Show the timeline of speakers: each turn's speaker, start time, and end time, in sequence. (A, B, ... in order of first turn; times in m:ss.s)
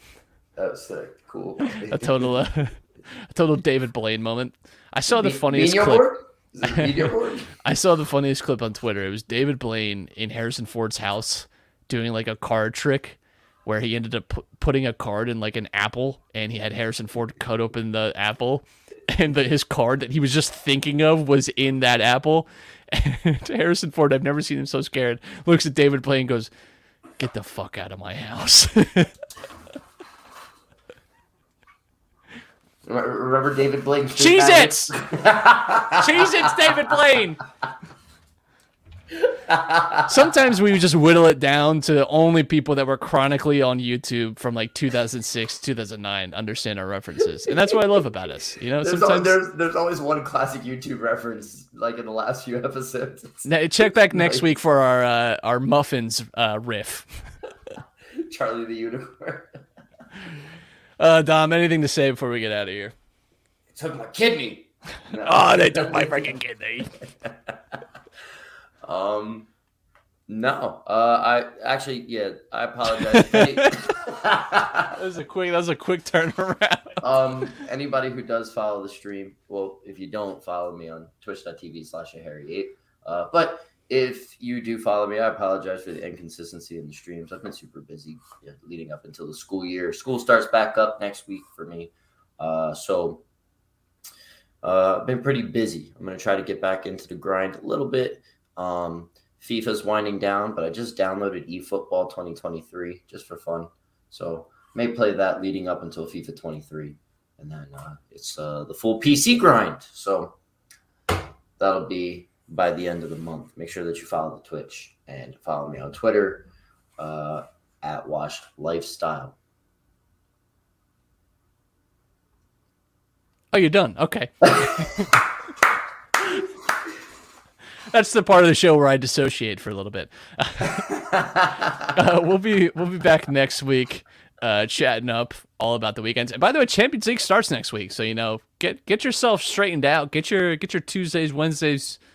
0:00.6-0:02.3 A
0:01.7-0:06.1 B
0:05.1-0:07.5 A
0:06.6-0:26.5 B
0:27.2-0:29.1 B
0:32.8-0:36.9 A
0:34.2-0:34.9 B
0:36.0-0:37.4 B
0:39.1-0:40.1 A
0:40.0-0:49.3 B
0:48.8-0:53.5 A
0:53.4-0:57.3 B
0:54.1-0:54.5 A
0:58.1-0:59.6 A
1:01.0-1:02.9 B
1:03.7-1:06.4 A
1:05.1-1:07.0 B
1:07.2-1:07.5 A
1:08.8-1:09.5 A
1:10.3-1:15.0 A
1:13.1-1:13.7 B
1:14.9-1:17.0 B
1:17.0-1:33.2 A
1:34.6-1:50.4 A
1:51.6-1:59.4 A
2:03.5-2:05.2 B
2:07.9-2:11.1 B
2:10.9-2:11.9 A
2:11.8-2:22.0 B